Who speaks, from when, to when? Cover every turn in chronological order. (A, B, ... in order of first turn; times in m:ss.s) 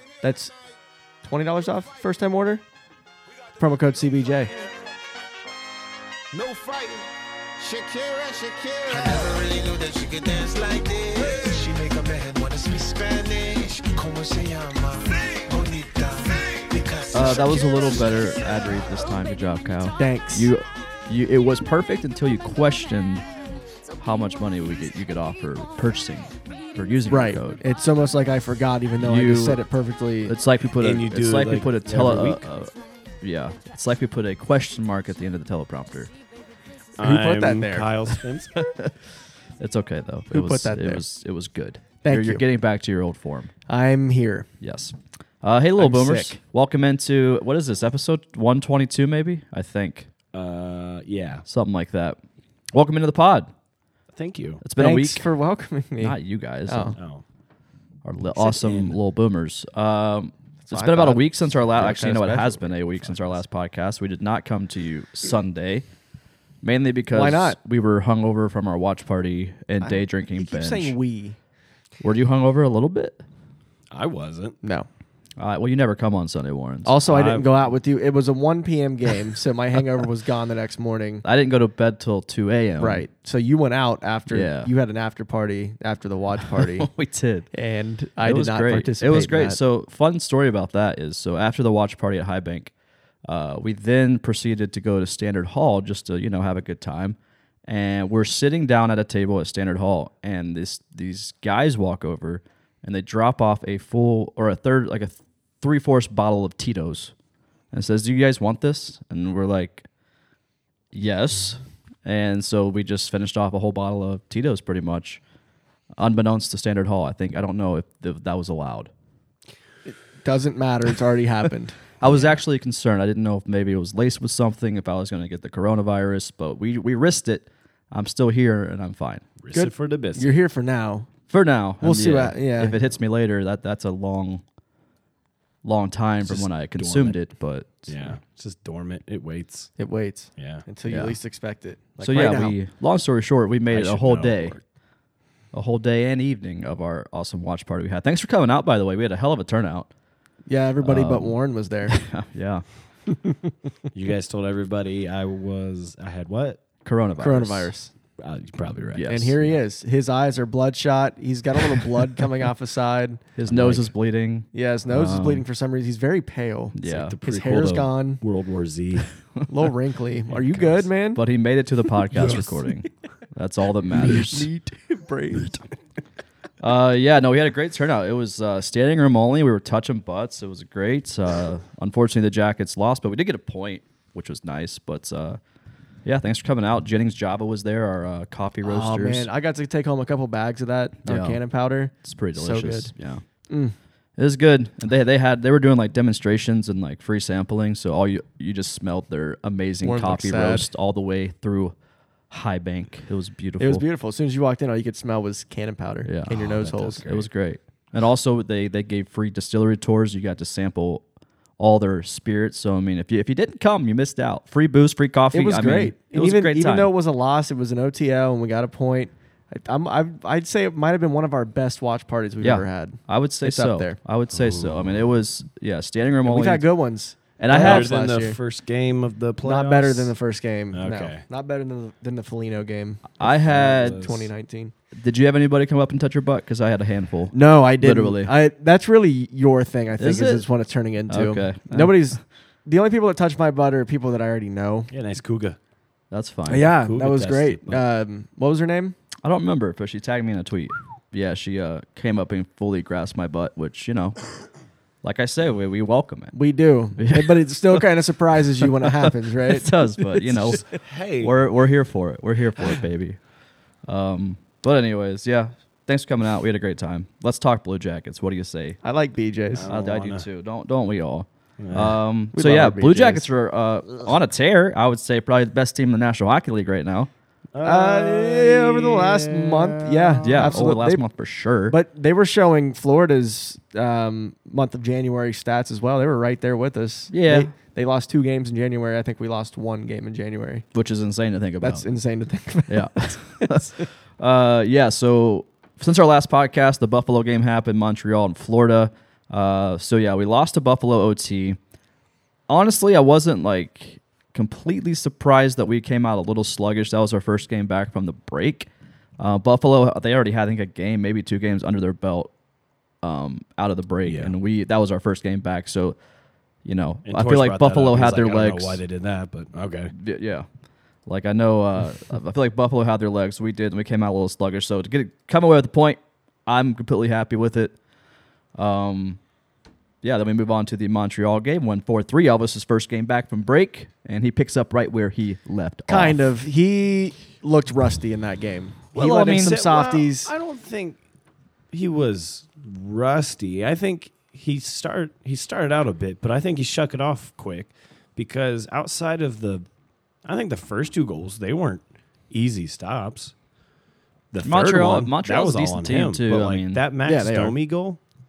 0:00.2-0:00.5 A
0:01.2-0:02.6 A
0:03.6-0:04.5 A
0:06.3-0:18.6 B
0:17.1-0:23.3 C
0:20.0-0:20.5 A
0:24.0-0:27.6 C
0:27.1-0:30.3 A
0:29.0-0:29.6 C
0:30.3-0:36.1 C
0:30.8-0:32.5 D
0:37.0-0:38.6 D
0:37.0-0:37.9 A
0:38.6-0:39.0 C
0:39.6-0:43.5 C
0:40.3-0:41.0 A
0:42.0-0:42.4 A
0:43.7-0:44.5 A
0:44.6-0:50.1 C
0:45.8-0:46.4 A
0:50.3-0:51.4 D
0:51.5-0:52.2 C
0:52.7-0:53.5 C
0:54.1-0:54.6 D
0:54.6-0:55.2 C
0:54.8-0:56.2 A
0:56.0-0:57.0 C
0:56.7-0:57.0 A
0:57.0-0:57.2 D
0:58.0-1:05.8 C
0:58.4-0:59.0 D
1:00.6-1:03.2 A
1:06.6-1:10.9 C
1:07.1-1:07.6 A
1:09.8-1:11.4 A
1:12.0-1:13.2 C
1:13.9-1:14.6 D
1:14.6-1:14.9 A
1:15.4-1:16.9 C
1:16.8-1:21.2 A
1:17.1-1:17.5 D
1:21.2-1:23.0 C
1:22.8-1:26.9 A
1:24.3-1:24.7 C
1:26.5-1:27.5 C
1:27.5-1:29.6 A
1:28.2-1:32.7 C
1:33.2-1:47.1 C
1:47.7-1:49.9 C
1:50.9-1:55.2 C
1:56.0-1:58.9 C
1:59.9-2:01.9 A
2:02.0-2:09.2 C
2:02.0-2:02.3 D
2:09.4-2:10.3 D
2:09.5-2:11.1 A
2:11.3-2:14.4 C
2:11.8-2:12.8 A
2:15.6-2:17.9 C
2:16.2-2:17.2 D
2:17.9-2:19.7 D
2:19.8-2:22.6 A
2:20.4-2:20.6 D
2:20.9-2:21.2 C
2:22.0-2:24.5 C
2:23.7-2:24.6 D
2:25.5-2:29.9 C
2:30.5-2:32.0 A
2:30.8-2:31.3 C
2:31.9-2:32.6 C
2:33.9-2:36.6 D
2:36.8-2:37.7 C
2:37.2-2:37.9 A
2:38.2-2:39.6 D
2:38.9-2:39.3 C
2:39.1-2:43.8 A
2:43.4-2:45.4 C
2:43.5-2:43.8 D
2:44.5-2:48.2 A
2:46.8-2:47.7 C
2:46.8-2:49.1 D
2:49.5-2:51.2 A
2:50.3-2:50.7 D
2:51.1-2:54.5 C
2:52.2-2:52.5 D
2:54.1-2:55.6 A
2:56.6-3:05.4 C
3:06.0-3:09.3 C
3:08.6-3:12.9 A
3:11.0-3:11.4 C
3:12.0-3:13.2 C
3:13.5-3:13.8 A
3:14.2-3:21.7 C
3:19.8-3:20.7 A
3:22.3-3:23.8 C
3:23.6-3:27.2 A
3:26.0-3:31.0 C
3:26.5-3:27.0 D
3:31.6-3:36.9 C
3:35.3-3:44.0 A
3:42.4-3:46.6 C
3:44.3-3:45.1 D
3:46.2-3:48.4 A
3:47.4-3:47.9 C
3:47.5-3:50.1 D
3:49.4-3:54.7 A
3:50.7-3:51.2 D
3:53.2-3:54.1 C
3:53.2-3:54.2 D
3:54.9-3:58.3 C
3:57.3-4:04.9 A
4:00.0-4:00.4 C
4:01.1-4:02.0 C
4:04.9-4:05.6 D
4:06.1-4:06.7 C
4:06.5-4:09.0 A
4:06.6-4:07.8 D
4:09.2-4:14.3 C
4:15.0-4:16.3 C
4:16.3-4:20.6 A
4:17.0-4:17.4 C
4:18.8-4:20.7 C
4:20.7-4:21.3 D
4:21.2-4:23.2 C
4:23.9-4:28.8 C
4:28.8-4:29.7 A
4:29.6-4:30.2 D
4:29.6-4:37.1 C
4:31.6-4:32.0 D
4:32.3-4:33.3 A
4:37.5-4:40.7 D
4:37.6-4:41.0 A
4:40.2-4:41.8 C
4:41.7-4:50.6 A
4:47.1-4:47.5 C
4:50.7-4:51.9 C
4:51.6-4:53.8 A
4:52.7-5:01.6 C
5:02.5-5:08.7 C
5:09.2-5:12.3 C
5:13.0-5:16.0 C
5:14.0-5:14.3 D
5:16.6-5:18.8 C
5:17.1-5:19.9 D
5:19.9-5:20.5 C
5:21.1-5:27.8 C
5:28.6-5:29.2 C
5:30.0-5:36.2 C
5:35.9-5:40.3 A
5:38.9-5:39.6 C
5:39.0-5:41.0 D
5:41.7-5:49.6 D
5:50.2-5:53.3 D
5:54.3-5:58.0 D
5:54.4-5:56.8 C
5:57.1-5:57.6 A